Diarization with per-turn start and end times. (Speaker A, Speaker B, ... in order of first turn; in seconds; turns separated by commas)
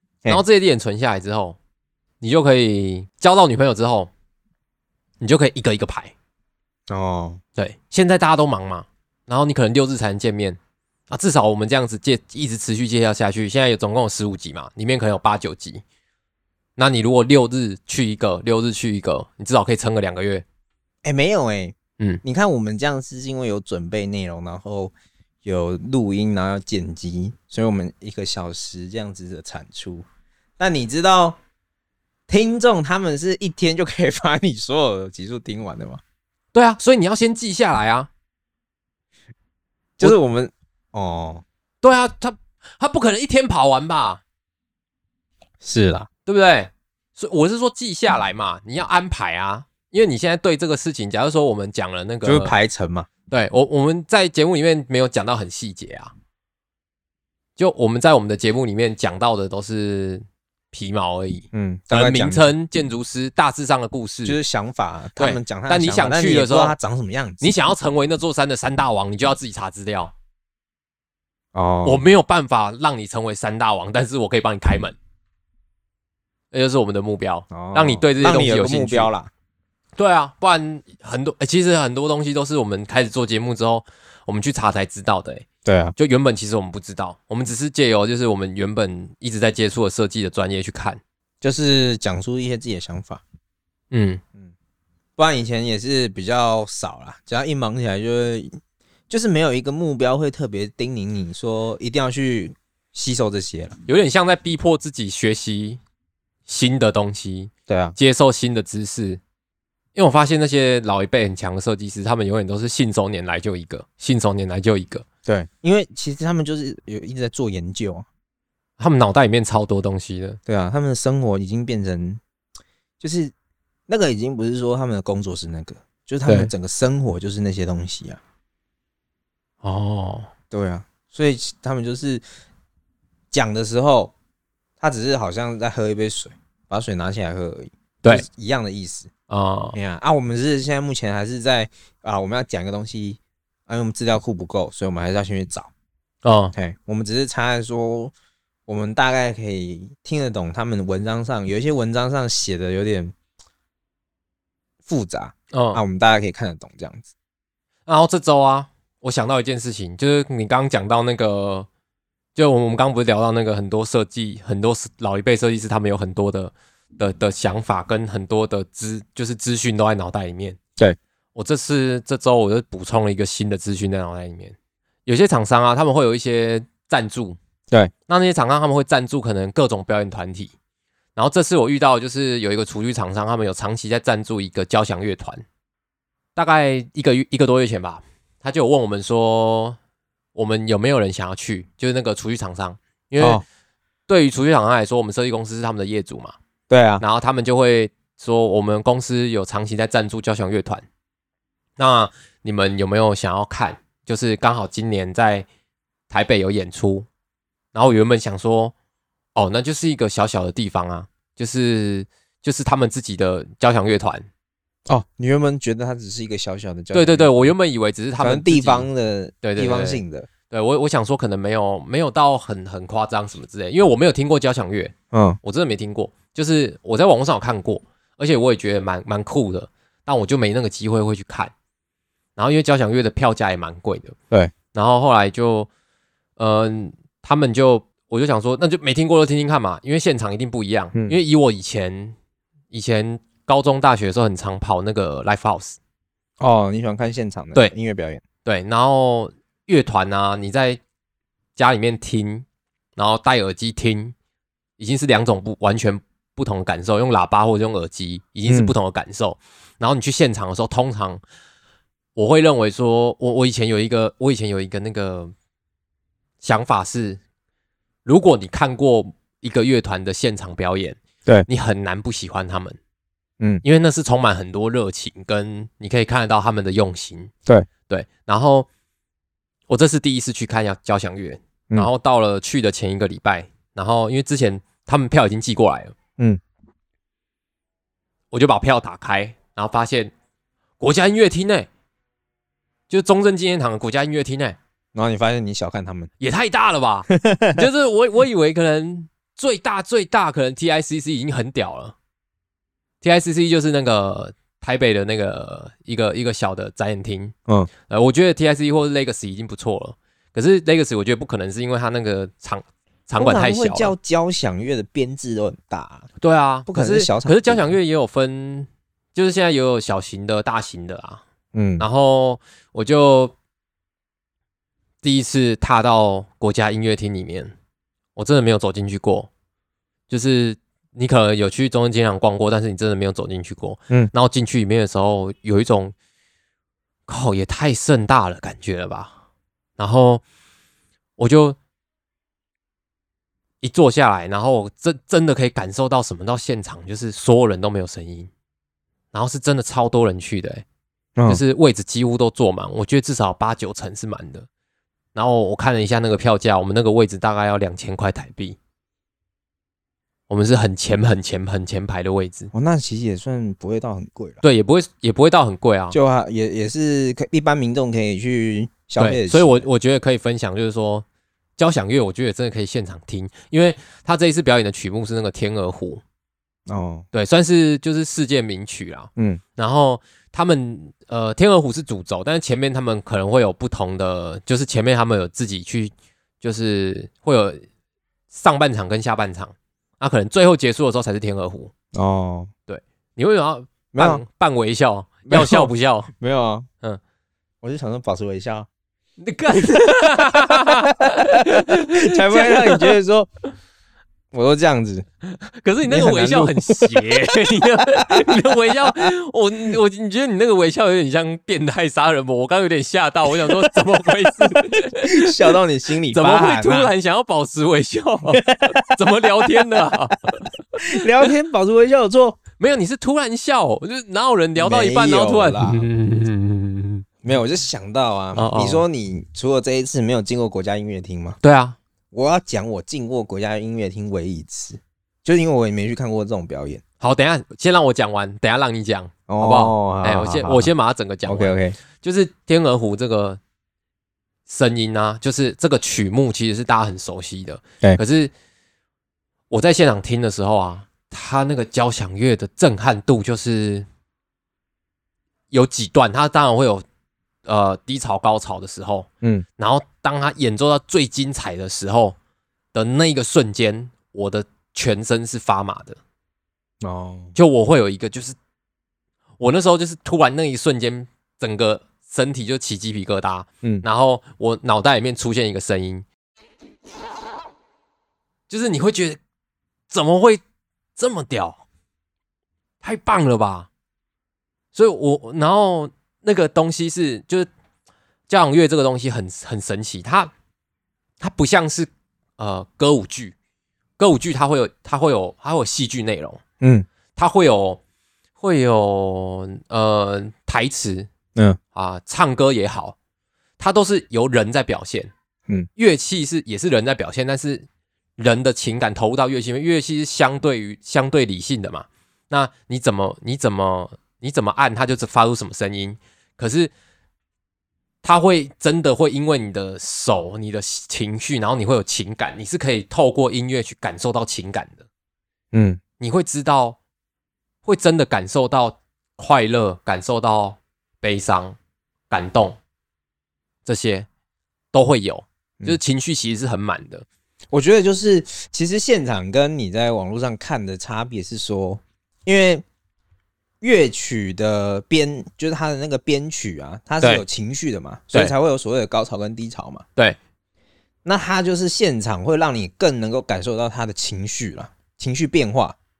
Speaker A: 0.3-1.6, Speaker A: 2.2-4.1, Speaker A: 5.2-6.1, Speaker B: 6.9-7.4, Speaker A: 7.6-10.6, Speaker A: 11.1-15.8, Speaker A: 16.8-20.4, Speaker B: 21.0-24.9, Speaker B: 25.4-30.1, Speaker B: 30.6-31.4, Speaker B: 32.3-36.0, Speaker A: 36.5-38.1, Speaker B: 40.0-41.4, Speaker A: 41.8-44.2, Speaker B: 45.6-46.1, Speaker A: 46.3-52.5, Speaker B: 52.2-53.1, Speaker A: 53.3-56.1, Speaker A: 57.6-64.4, Speaker B: 61.5-62.5, Speaker B: 64.2-67.5, Speaker A: 65.2-66.8, Speaker A: 67.4-70.1, Speaker B: 71.5-72.1, Speaker A: 71.8-75.0, Speaker A: 76.5-79.1, Speaker B: 77.5-79.3, Speaker A: 80.0-91.0, Speaker B: 85.7-85.9, Speaker B: 91.4-93.2, Speaker A: 93.9-94.2, Speaker B: 95.2-98.6, Speaker B: 99.1-103.8, Speaker A: 103.9-105.8, Speaker A: 106.5-109.2, Speaker B: 107.7-108.0, Speaker A: 110.0-115.1, Speaker B: 115.3-118.1, Speaker A: 118.8-120.4, Speaker B: 120.5-122.2, Speaker B: 123.0-123.3, Speaker B: 123.9-128.2, Speaker A: 126.3-126.5, Speaker A: 129.6-130.3, Speaker B: 130.5-132.2, Speaker B: 133.3-134.1, Speaker B: 134.8-139.1, Speaker A: 139.3-139.8, Speaker B: 139.8-145.7, Speaker A: 146.2-146.5, Speaker B: 146.6-148.1, Speaker B: 148.7-153.1, Speaker B: 154.9-157.1, Speaker A: 155.5-155.8, Speaker A: 157.9-161.7, Speaker A: 162.4-170.6, Speaker A: 171.3-174.6, Speaker A: 175.1-177.4, Speaker A: 178.1-180.5, Speaker A: 181.2-185.4, Speaker A: 186.4-189.8, Speaker A: 190.3-193.4, Speaker B: 193.2-193.4, Speaker A: 194.1-196.3, Speaker B: 196.7-197.0, Speaker A: 197.0-200.8, Speaker A: 201.8-205.5, Speaker A: 206.1-207.1, Speaker A: 207.7-208.7, Speaker A: 209.3-214.3, Speaker B: 214.9-217.5, Speaker A: 216.9-218.9, Speaker B: 218.2-220.3, Speaker A: 219.4-231.5, Speaker B: 225.1-225.4, Speaker A: 232.4-234.2, Speaker A: 234.7-235.7, Speaker A: 236.4-242.2, Speaker A: 242.7-245.8, Speaker B: 246.4-248.2, Speaker A: 248.4-250.8, Speaker A: 251.6-252.4, Speaker A: 253.0-254.1, Speaker A: 254.8-261.2, Speaker B: 258.5-258.7, Speaker A: 262.1-265.3, Speaker A: 266.4-267.2, Speaker A: 268.1-272.8, Speaker A: 273.6-277.3, Speaker A: 277.9-278.7, Speaker A: 279.7-285.9, Speaker A: 288.3-290.1, Speaker A: 290.8-291.7, Speaker A: 292.9-294.6, Speaker B: 294.9-296.1, Speaker A: 296.2-301.9, Speaker B: 297.1-297.6, Speaker A: 303.0-307.3, Speaker A: 307.9-313.9, Speaker B: 313.2-316.1, Speaker A: 316.2-321.2, Speaker B: 316.7-317.7, Speaker B: 321.5-321.9, Speaker A: 321.8-323.3, Speaker A: 325.0-327.5, Speaker A: 328.2-329.3, Speaker A: 330.1-335.9, Speaker A: 337.1-339.1, Speaker A: 339.8-340.2, Speaker A: 341.2-341.6, Speaker A: 343.6-348.3, Speaker A: 349.1-350.6, Speaker B: 351.2-351.4, Speaker A: 351.3-354.5, Speaker A: 355.1-358.6, Speaker A: 360.3-362.5, Speaker B: 362.5-364.4, Speaker A: 364.4-366.0, Speaker B: 365.9-369.7, Speaker A: 369.0-371.1, Speaker A: 371.6-376.0, Speaker B: 376.7-377.1, Speaker A: 377.1-387.6, Speaker A: 388.3-391.7, Speaker B: 391.9-392.5, Speaker A: 392.7-396.1, Speaker B: 393.9-394.2, Speaker B: 395.3-396.7, Speaker B: 397.6-398.7, Speaker A: 399.2-402.9, Speaker B: 400.5-403.3, Speaker B: 404.3-405.1, Speaker A: 405.4-415.5, Speaker B: 405.9-409.1, Speaker B: 413.4-416.9, Speaker A: 416.1-421.3, Speaker B: 418.3-418.9, Speaker B: 420.8-422.4, Speaker A: 422.6-427.1, Speaker B: 424.6-425.9, Speaker B: 427.2-431.4, Speaker A: 428.4-428.9, Speaker A: 431.4-431.8, Speaker B: 432.1-436.8, Speaker A: 437.0-443.4, Speaker B: 439.3-440.7, Speaker B: 441.2-441.8, Speaker A: 444.5-448.3, Speaker A: 449.5-453.9, Speaker A: 455.5-456.8, Speaker A: 457.4-462.2, Speaker A: 462.7-466.0, Speaker B: 466.8-467.4, Speaker A: 467.4-468.4, Speaker A: 469.4-476.1, Speaker A: 478.5-479.2, Speaker A: 479.9-480.4, Speaker A: 481.0-481.6, Speaker A: 482.8-483.7, Speaker A: 484.7-487.5, Speaker A: 488.3-490.3, Speaker A: 491.2-493.4, Speaker A: 494.0-496.4, Speaker B: 496.6-496.9, Speaker A: 497.1-497.8, Speaker A: 498.4-501.1, Speaker A: 501.8-503.0, Speaker A: 503.6-505.1, Speaker A: 505.8-516.7, Speaker A: 518.0-524.9, Speaker B: 525.5-525.8, Speaker A: 526.0-526.8, Speaker A: 527.6-531.6, Speaker A: 532.1-532.6, Speaker A: 533.6-534.1, Speaker A: 534.7-537.1, Speaker B: 537.5-542.6, Speaker B: 543.6-549.8, Speaker B: 551.0-555.8